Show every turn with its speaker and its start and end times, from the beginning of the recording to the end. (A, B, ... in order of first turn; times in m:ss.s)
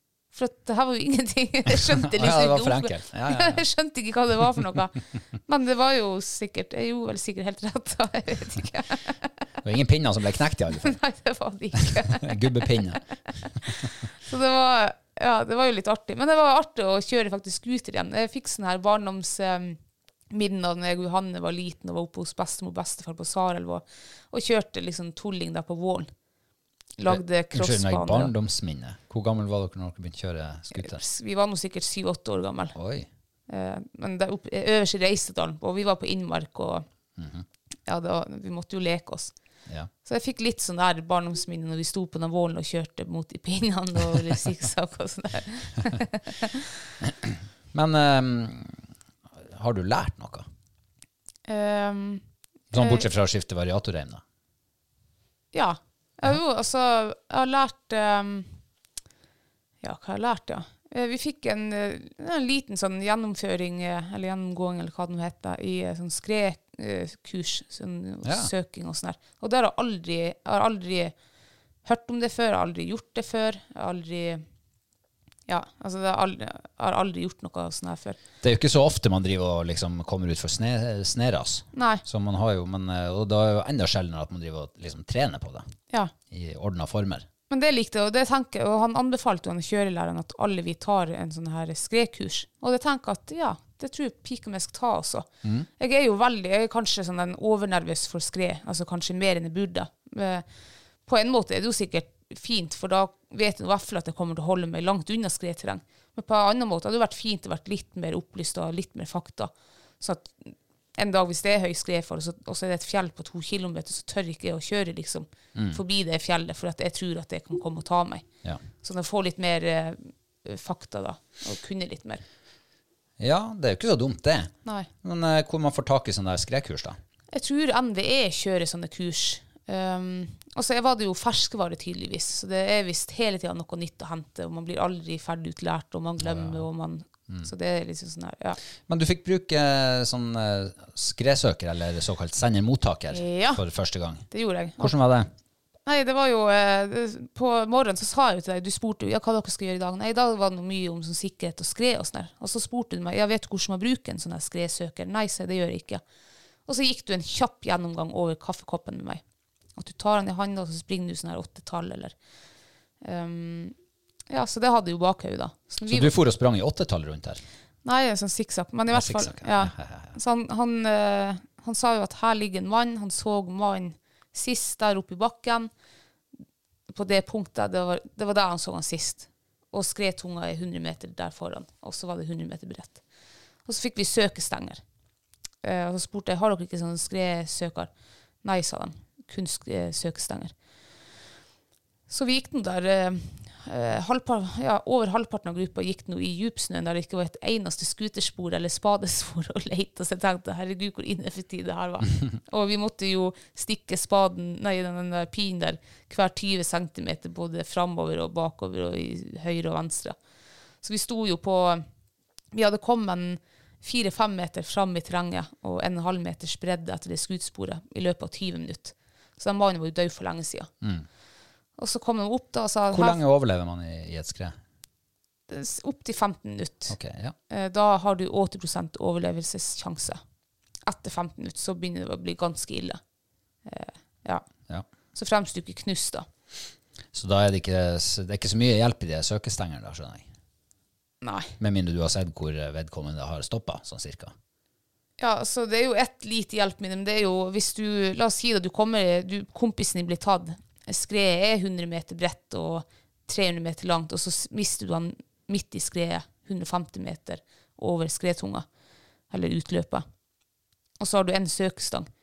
0:00.3-0:09.2 A
0:01.7-0:03.6 B
0:09.6-0:11.0 B
0:10.8-0:13.0 A
0:12.0-0:13.0 B
0:13.6-0:19.8 A
0:20.3-0:26.1 A
0:27.0-0:28.3 A
0:27.1-0:31.0 B
0:30.7-0:32.8 A
0:32.8-0:33.1 B
0:33.5-0:36.8 A
0:37.2-0:37.4 B
0:37.9-0:39.3 A
0:40.0-0:46.7 A
0:47.0-0:48.9 B
0:49.4-0:50.5 B
0:51.5-0:52.2 A
0:52.7-0:54.2 B
0:52.7-0:53.1 A
0:55.5-0:58.5 A
0:59.8-1:11.1 A
1:08.2-1:08.5 B
1:11.8-1:14.4 A
1:15.5-1:18.2 A
1:18.4-1:25.7 B
1:21.7-1:22.0 A
1:26.3-1:27.3 B
1:27.5-1:40.4 A
1:41.1-1:58.2 A
1:58.8-2:02.2 A
2:03.2-2:07.0 B
2:07.3-2:18.6 A
2:16.2-2:16.6 B
2:18.9-2:24.3 B
2:23.1-2:23.6 A
2:24.3-2:25.0 A
2:24.8-2:25.3 B
2:25.9-2:36.0 A
2:36.7-2:39.2 A
2:39.8-2:42.1 A
2:43.0-2:43.8 A
2:44.3-2:46.2 A
2:45.9-2:47.4 B
2:47.8-2:55.7 A
2:48.9-2:50.1 B
2:56.9-3:03.0 A
3:03.7-3:04.8 A
3:05.6-3:07.9 A
3:08.4-3:10.5 A
3:12.1-3:30.2 A
3:30.8-3:31.8 A
3:32.5-3:40.7 A
3:41.8-3:43.2 A
3:42.9-3:44.6 B
3:45.5-3:47.0 A
3:46.9-3:47.4 B
3:47.5-3:50.2 A
3:50.8-3:53.0 A
3:53.7-3:54.4 A
3:55.2-3:56.3 A
3:57.1-4:00.3 B
4:01.2-4:01.5 A
4:01.6-4:04.3 B
4:05.2-4:18.7 A
4:19.3-4:20.0 A
4:21.0-4:22.1 A